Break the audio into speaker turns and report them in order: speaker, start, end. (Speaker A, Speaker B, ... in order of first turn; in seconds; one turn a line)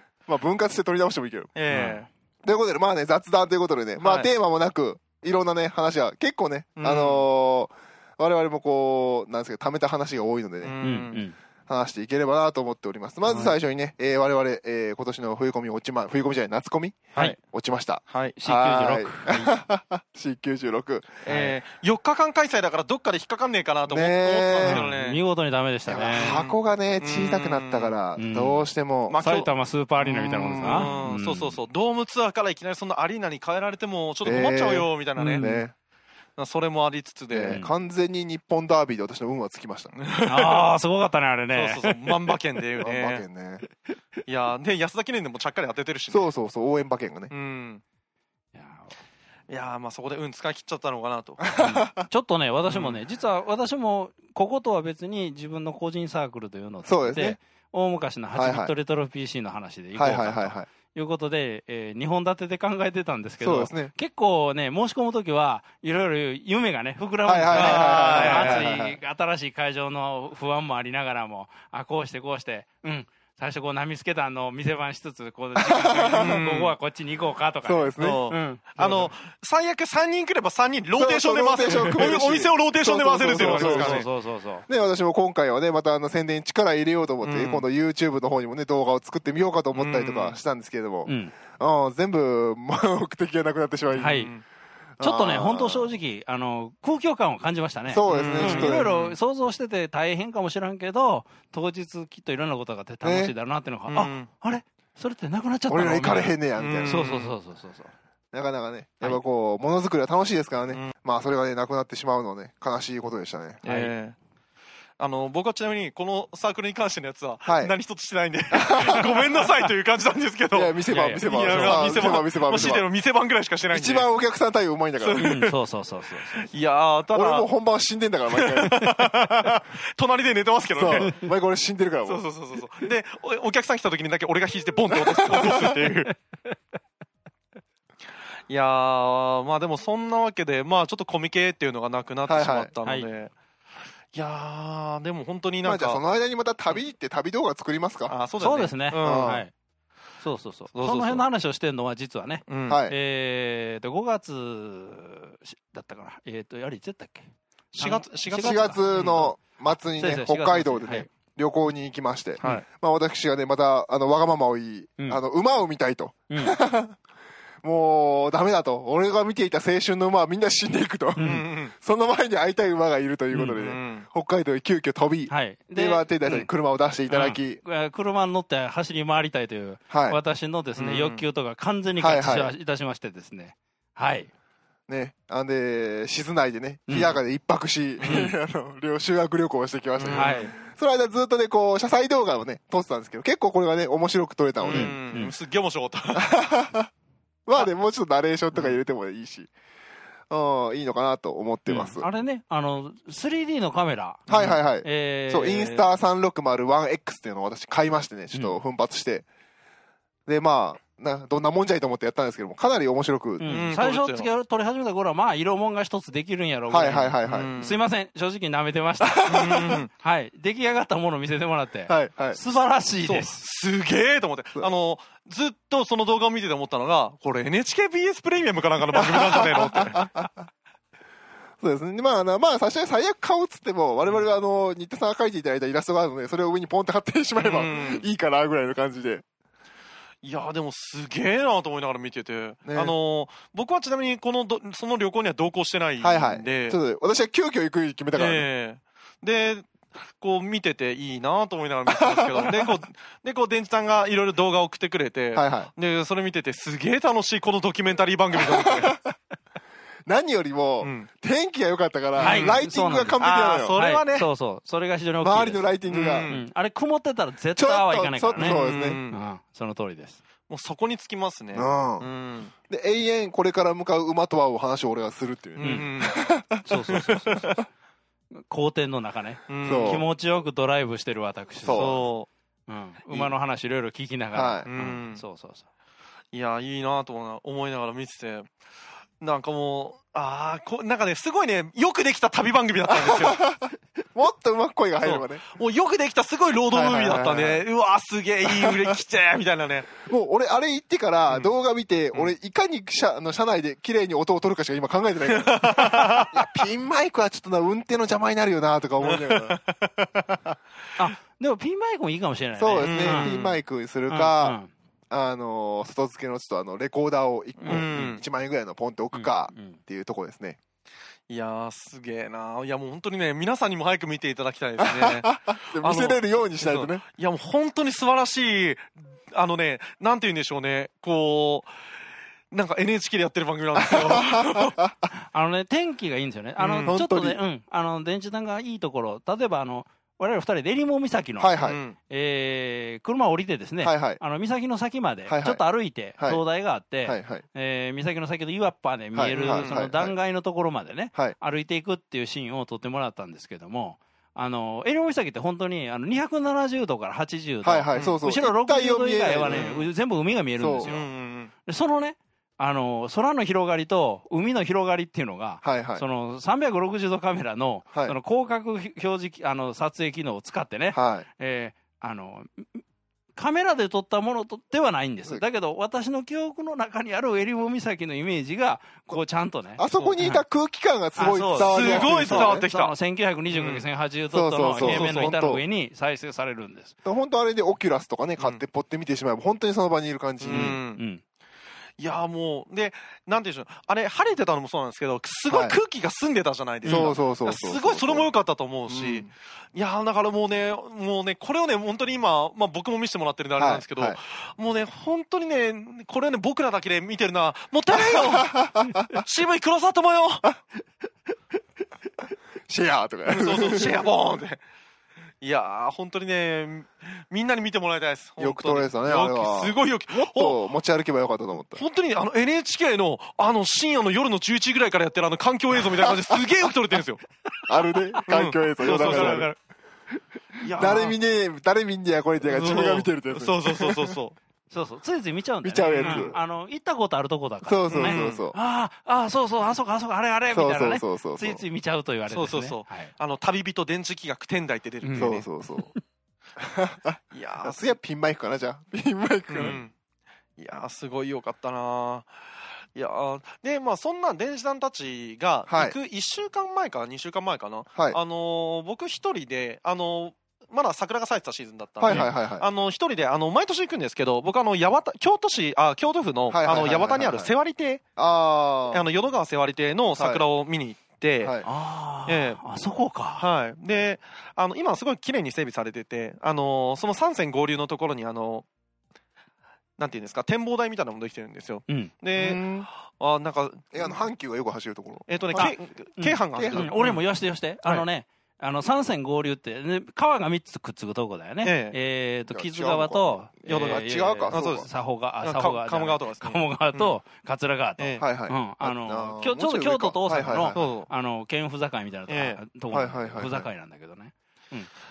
Speaker A: 0.3-1.5
Speaker B: 1.6-2.1
Speaker C: 1.7-2.0
Speaker A: 2.4-10.8
Speaker B: 4.0-4.3
Speaker B: 6.8-7.3
Speaker B: 10.6-11.2
Speaker C: 10.8-11.4
Speaker A: 11.7-21.2
Speaker B: 13.2-13.5
Speaker B: 18.1-18.4
Speaker C: 18.4-19.5
Speaker B: 21.2-25.2
Speaker C: 21.3-21.6
Speaker A: 23.9-24.9
Speaker C: 24.6-26.4
Speaker A: 25.9-29.2
Speaker B: 25.9-28.0
Speaker C: 28.1-31.6
Speaker B: 29.1-29.5
Speaker A: 30.0-30.9
Speaker B: 30.6-35.5
Speaker A: 34.2-35.7
Speaker C: 35.2-35.7
Speaker B: 36.4-37.6
Speaker A: 37.3-40.0
Speaker C: 37.5-37.7
Speaker B: 40.0-40.7
Speaker C: 40.3-42.0
Speaker B: 41.5-43.2
Speaker A: 42.8-43.6
Speaker B: 44.3-46.3
Speaker A: 46.1-47.3
Speaker B: 47.3-47.8
Speaker C: 48.5-49.0
Speaker B: 49.5-51.5
Speaker A: 51.4-52.1
Speaker C: 51.6-79.1
Speaker B: 52.7-53.0
Speaker A: 56.8-57.4
Speaker A: 58.3-58.8
Speaker A: 60.0-60.7
Speaker A: 63.4-63.9
Speaker A: 67.2-69.0
Speaker B: 67.5-68.8
Speaker A: 75.6-76.3
Speaker B: 76.1-76.8
Speaker A: 77.6-78.3
Speaker B: 78.0-84.1
Speaker A: 81.0-84.1
Speaker C: 81.7-82.1
Speaker C: 83.3-84.7
Speaker A: 84.7-94.2
Speaker B: 87.2-87.7
Speaker B: 89.7-90.4
Speaker C: 91.1-91.3
Speaker C: 93.9-94.3
Speaker B: 94.1-94.4
Speaker A: 95.0-96.0
Speaker C: 95.0-107.9
Speaker A: 97.9-98.9
Speaker B: 98.1-99.2
Speaker A: 103.0-103.3
Speaker B: 103.9-104.3
Speaker A: 105.7-107.1
Speaker B: 106.6-107.3
Speaker A: 108.3-113.6
Speaker B: 113.6-114.2
Speaker C: 113.7-113.9
Speaker B: 115.0-124.1
Speaker A: 117.5-117.7
Speaker A: 118.5-119.2
Speaker A: 120.5-122.9
Speaker C: 120.9-122.2
Speaker A: 123.7-125.2
Speaker B: 125.0-125.6
Speaker C: 125.2-126.5
Speaker B: 126.3-127.5
Speaker A: 127.1-129.1
Speaker B: 128.3-131.2
Speaker A: 130.8-132.2
Speaker B: 132.1-136.1
Speaker A: 135.0-135.7
Speaker B: 138.5-143.3
Speaker A: 142.3-142.7
Speaker C: 142.8-143.1
Speaker B: 144.1-146.1
Speaker A: 145.6-148.2
Speaker B: 148.1-149.4
Speaker C: 148.4-149.5
Speaker A: 149.0-149.4
Speaker C: 150.2-161.1
Speaker B: 150.7-151.3
Speaker B: 152.5-152.8
Speaker A: 152.7-153.0
Speaker B: 157.8-159.3
Speaker A: 158.4-167.0
Speaker C: 166.3-166.6
Speaker A: 167.6-177.6
Speaker C: 171.2-171.5
Speaker B: 171.2-171.7
Speaker C: 173.3-173.6
Speaker B: 173.6-174.1
Speaker C: 175.3-176.5
Speaker C: 177.1-184.3
Speaker A: 179.9-180.2
Speaker B: 180.8-181.2
Speaker A: 182.0-182.5
Speaker A: 184.9-195.0
Speaker C: 186.9-187.2
Speaker B: 188.0-188.3
Speaker C: 188.0-188.3
Speaker B: 190.0-190.5
Speaker C: 190.1-190.5
Speaker B: 194.6-196.3
Speaker C: 194.7-195.3
Speaker A: 196.1-196.9
Speaker A: 197.5-199.5
Speaker A: 200.3-202.1
Speaker C: 201.7-205.9
Speaker B: 204.3-204.6
Speaker A: 204.3-209.2
Speaker A: 210.3-213.7
Speaker C: 213.4-223.4
Speaker B: 213.5-214.3
Speaker A: 216.7-217.5
Speaker B: 217.2-217.8
Speaker A: 219.3-219.7
Speaker B: 219.3-219.9
Speaker A: 221.9-222.4
Speaker B: 223.0-230.1
Speaker A: 228.9-230.4
Speaker A: 231.6-239.2
Speaker B: 237.4-238.1
Speaker B: 240.2-246.8
Speaker A: 242.7-242.9
Speaker A: 246.0-248.5
Speaker B: 248.1-259.0
Speaker A: 251.9-252.7
Speaker A: 255.3-255.7
Speaker A: 258.4-259.1
Speaker A: 260.1-263.8
Speaker B: 260.8-261.1
Speaker B: 262.1-262.6
Speaker C: 262.2-270.2
Speaker B: 263.2-264.3
Speaker A: 265.2-266.3
Speaker B: 265.9-266.5
Speaker A: 267.6-269.0
Speaker B: 268.4-269.2
Speaker B: 270.5-272.5
Speaker A: 271.5-272.1
Speaker A: 272.7-277.5
Speaker B: 275.6-276.2
Speaker C: 275.6-275.9
Speaker C: 276.6-277.7
Speaker C: 278.3-282.0
Speaker B: 279.5-280.1
Speaker A: 279.6-280.1
Speaker A: 281.6-282.0
Speaker B: 281.7-282.3
Speaker C: 282.7-285.7
Speaker A: 283.1-283.4
Speaker A: 284.3-284.7
Speaker B: 284.6-285.2
Speaker B: 286.3-288.5
Speaker B: 289.2-293.4
Speaker A: 292.9-295.5
Speaker B: 295.0-300.0
Speaker A: 296.7-297.6
Speaker A: 298.5-298.9
Speaker A: 300.0-309.6
Speaker B: 305.3-306.7
Speaker B: 309.0-309.9
Speaker C: 311.0-313.3
Speaker A: 312.6-314.6
Speaker B: 312.8-313.6
Speaker C: 314.1-314.7
Speaker A: 315.1-320.6
Speaker B: 317.6-318.2
Speaker C: 319.1-319.8
Speaker B: 321.3-331.7
Speaker A: 324.8-327.0
Speaker B: 332.5-334.8
Speaker A: 333.8-334.9
Speaker C: 335.1-361.1
Speaker B: 336.6-337.0
Speaker A: 336.9-337.4
Speaker A: 341.4-341.8
Speaker B: 341.6-342.0
Speaker A: 343.8-344.2
Speaker A: 345.3-346.4
Speaker A: 347.0-347.4
Speaker A: 349.1-350.2
Speaker B: 349.3-349.8
Speaker A: 357.6-359.7
Speaker B: 357.9-358.2
Speaker B: 359.4-359.9
Speaker A: 360.6-360.9
Speaker B: 360.8-361.5
Speaker C: 361.7-372.8
Speaker A: 365.6-366.1
Speaker A: 370.9-371.3
Speaker C: 373.3-380.4
Speaker A: 379.8-382.6
Speaker B: 379.9-380.2
Speaker C: 381.2-386.9
Speaker B: 381.5-382.9
Speaker B: 383.5-383.9
Speaker A: 384.3-385.6
Speaker B: 384.8-385.3
Speaker A: 387.0-390.8
Speaker B: 390.4-391.0
Speaker C: 390.5-391.2
Speaker B: 392.0-408.6
Speaker A: 395.5-395.8
Speaker A: 396.8-398.3
Speaker C: 396.9-397.1
Speaker A: 398.9-399.3
Speaker A: 403.6-404.2
Speaker A: 407.9-409.2
Speaker B: 409.2-410.6
Speaker A: 412.7-414.1
Speaker B: 413.3-414.6
Speaker B: 415.4-420.7
Speaker A: 418.4-421.8
Speaker B: 421.7-427.2
Speaker A: 427.7-429.5
Speaker B: 428.3-429.5
Speaker C: 428.8-429.6
Speaker B: 430.6-431.2
Speaker A: 430.8-434.1
Speaker B: 432.5-434.4
Speaker C: 432.5-433.1
Speaker C: 434.7-443.1
Speaker A: 435.6-436.4
Speaker B: 435.9-436.3
Speaker A: 437.6-438.6
Speaker B: 437.9-438.4
Speaker A: 440.5-441.6
Speaker B: 442.3-445.5
Speaker C: 445.0-446.0
Speaker A: 445.2-445.9
Speaker A: 446.6-449.8
Speaker B: 447.3-447.9
Speaker B: 449.5-449.9
Speaker B: 450.6-452.3
Speaker B: 452.9-468.0
Speaker A: 455.7-456.0
Speaker A: 457.9-458.2
Speaker A: 462.0-462.7
Speaker C: 462.1-462.3
Speaker A: 466.5-467.5
Speaker A: 468.2-469.1
Speaker B: 468.9-471.6
Speaker A: 470.2-470.4
Speaker A: 471.4-471.7
Speaker C: 471.6-473.5
Speaker B: 472.3-472.6
Speaker B: 473.4-478.7
Speaker B: 480.0-484.2
Speaker C: 481.9-482.1
Speaker A: 482.4-482.9
Speaker A: 483.9-485.7
Speaker B: 485.3-487.2
Speaker C: 485.6-504.9
Speaker A: 486.6-487.0
Speaker B: 491.6-492.0
Speaker A: 492.5-494.9
Speaker B: 493.7-494.9
Speaker B: 495.4-497.2
Speaker B: 498.0-498.2
Speaker A: 498.2-500.9
Speaker B: 500.7-501.1
Speaker B: 502.3-502.6
Speaker A: 502.9-503.7